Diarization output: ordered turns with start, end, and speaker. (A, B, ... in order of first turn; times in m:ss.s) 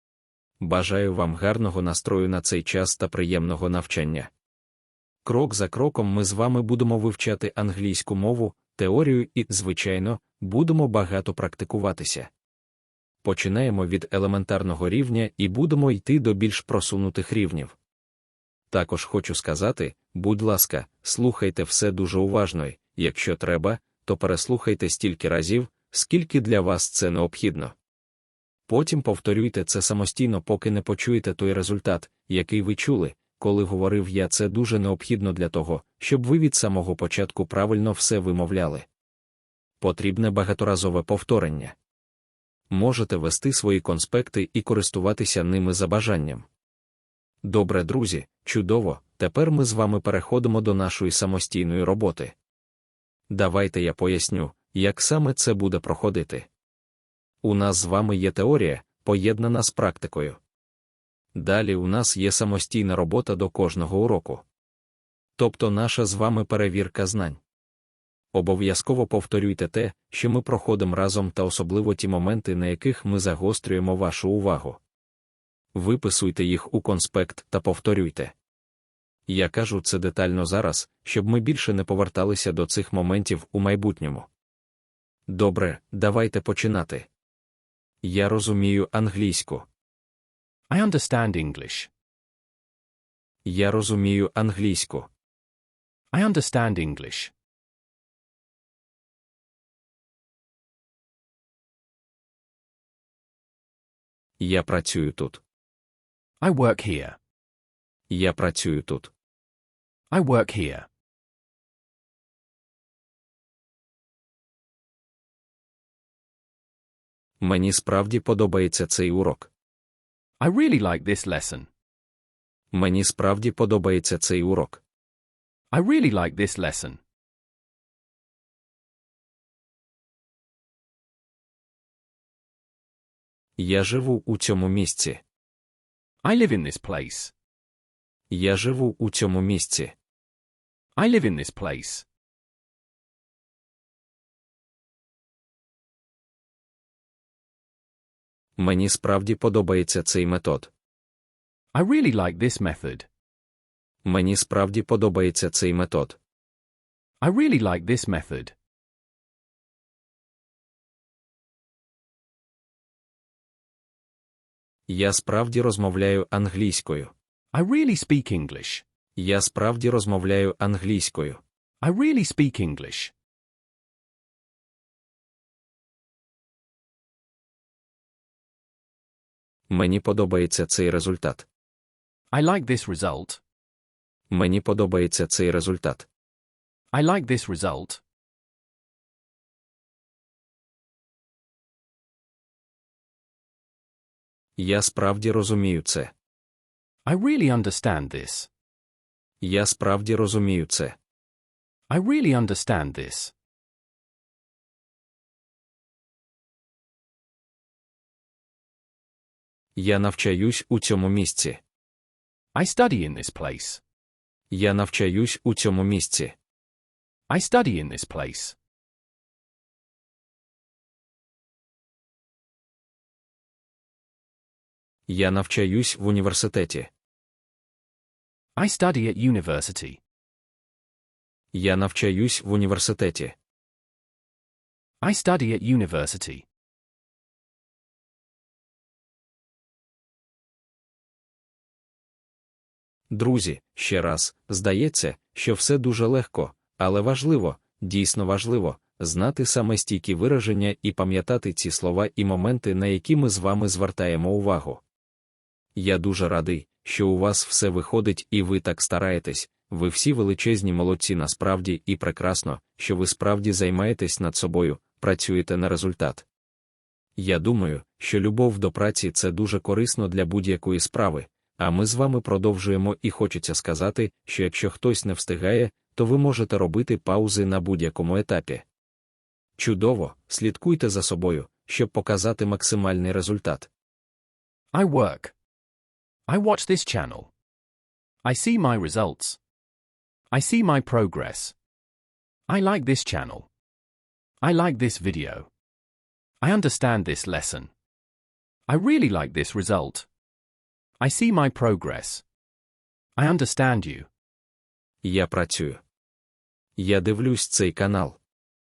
0:00.6-0:04.3 A
0:05.2-0:12.3 A
0:13.2-0:17.8 A
0:18.7-0:27.7 A
0:28.7-0:38.9 A
0:39.8-0:41.7 A
0:42.7-0:46.5 A
0:47.4-0:52.3 A
0:53.3-0:56.5 A
0:57.4-1:00.4 A
1:01.3-1:04.4 A
1:05.4-1:07.4 A
1:08.3-1:14.8 A
1:15.7-1:18.3 A
1:19.3-1:24.3 A
1:25.3-1:27.1 A
1:28.0-1:29.7 A
1:30.7-1:31.9 B
1:33.4-1:35.1 A
1:36.1-1:37.3 B
1:44.4-1:45.4 A
1:46.4-1:47.2 B
1:48.1-1:49.1 A
1:50.1-1:50.9 B
1:57.4-1:59.5 A
2:00.4-2:01.7 B
2:02.7-2:04.8 A
2:05.7-2:07.0 B
2:13.6-2:15.2 A
2:16.2-2:17.3 B
2:18.3-2:19.9 A
2:21.0-2:22.0 B
2:28.6-2:30.7 A
2:31.7-2:33.1 B
2:34.0-2:36.2 A
2:37.2-2:38.5 B
2:44.9-2:47.1 A
2:47.5-2:48.8 B
2:49.2-2:51.4 A
2:51.8-2:53.1 B
2:59.7-3:01.5 A
3:02.3-3:03.4 B
3:04.3-3:06.1 A
3:06.9-3:08.0 B
3:14.6-3:16.1 A
3:17.0-3:18.5 B
3:19.4-3:21.0 A
3:21.9-3:23.3 B
3:29.8-3:31.6 A
3:32.5-3:33.8 B
3:34.5-3:36.3 A
3:37.3-3:38.6 B
3:45.1-3:46.9 A
3:48.6-3:50.0 B
3:51.5-3:53.3 A
3:55.0-3:56.4 B
4:03.1-4:14.8 A
4:15.8-4:26.2 A
4:27.2-4:38.6 A
4:39.6-4:43.7 A
4:44.7-4:45.3 B
4:46.3-4:47.3 B
4:48.2-4:49.4 B
4:50.3-4:51.5 B
4:52.5-4:53.5 B
4:54.4-4:55.5 B
4:56.4-4:57.7 B
4:58.7-5:00.1 B
5:01.0-5:02.2 B
5:03.2-5:04.1 B
5:05.0-5:05.8 A
5:06.8-5:08.2 A